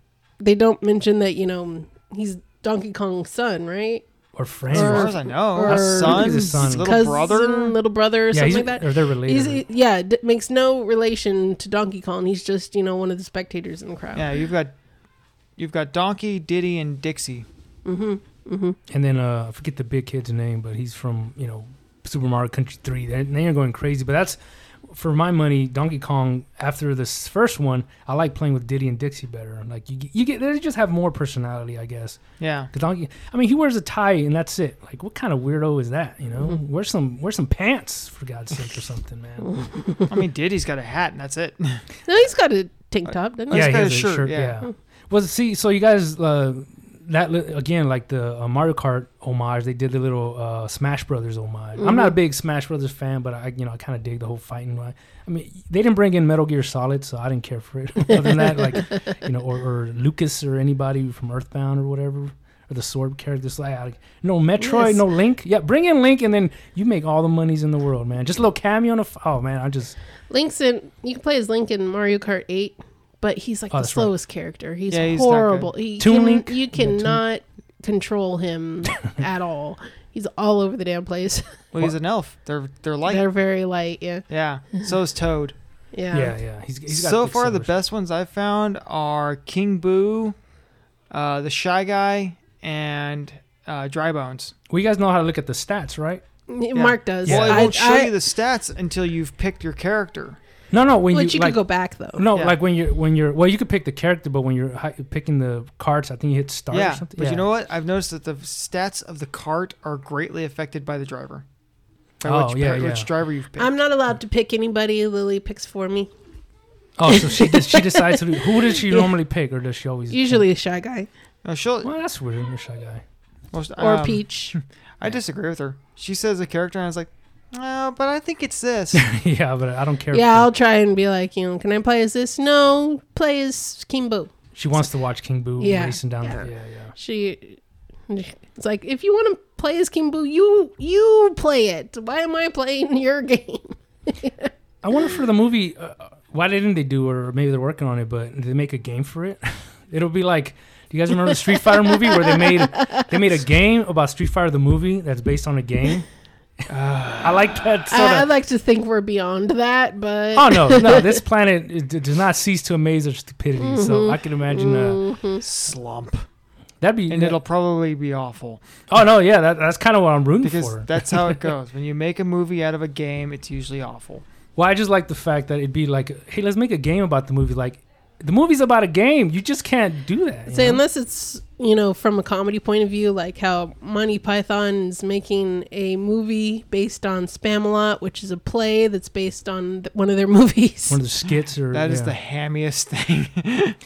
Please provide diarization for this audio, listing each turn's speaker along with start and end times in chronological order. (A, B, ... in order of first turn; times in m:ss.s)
0:00.4-0:04.0 A
0:04.3-0:05.1 B
0:04.7-0:07.8 C
0:04.7-0:14.2 A
0:05.7-0:07.1 B
0:08.3-0:09.6 B
0:14.1-0:14.7 C
0:15.6-0:17.4 C
0:17.8-0:18.8 A
0:18.9-0:32.2 B
0:32.4-0:32.7 C
0:32.7-0:39.7 B
0:39.4-0:40.1 A
0:40.1-0:41.8 C
0:42.1-0:43.9 A
0:43.1-0:44.6 C
0:43.5-1:10.0 B
0:51.8-0:52.2 A
0:58.4-0:58.9 A
1:04.6-1:05.0 A
1:10.3-1:21.6 A
1:13.7-1:14.1 B
1:14.9-1:15.7 C
1:16.0-1:17.2 B
1:18.9-1:19.2 B
1:21.7-1:23.2 C
1:23.1-1:24.2 A
1:24.3-1:25.5 C
1:25.9-1:26.3 A
1:26.1-1:27.7 B
1:26.9-1:30.4 C
1:31.1-1:34.5 C
1:34.7-1:36.2 B
1:36.5-1:38.1 A
1:36.7-1:40.4 C
1:37.2-1:37.7 B
1:40.7-1:41.6 B
1:41.1-1:42.2 A
1:42.2-1:47.4 B
1:46.7-1:51.4 C
1:52.2-1:53.7 C
1:52.2-1:53.1 B
1:53.6-1:56.1 A
1:57.0-2:00.4 B
1:57.1-1:59.1 A
2:00.1-2:01.1 A
2:01.4-2:01.9 C
2:01.8-2:03.0 B
2:03.5-2:09.0 C
2:03.8-2:04.5 A
2:08.9-2:10.5 B
2:10.1-2:14.3 A
2:14.6-2:16.9 B
2:15.6-2:24.5 A
2:24.8-2:36.0 B
2:31.2-2:33.2 A
2:36.7-2:37.8 C
2:37.2-2:38.3 B
2:37.9-2:41.2 A
2:40.3-2:45.0 B
2:43.6-2:45.4 A
2:45.4-2:46.2 C
2:46.8-2:47.4 B
2:47.1-2:48.6 C
2:48.9-2:51.4 B
2:50.4-2:54.2 C
2:54.6-3:00.8 B
3:00.5-3:11.0 A
3:10.9-3:12.1 B
3:11.7-3:13.8 C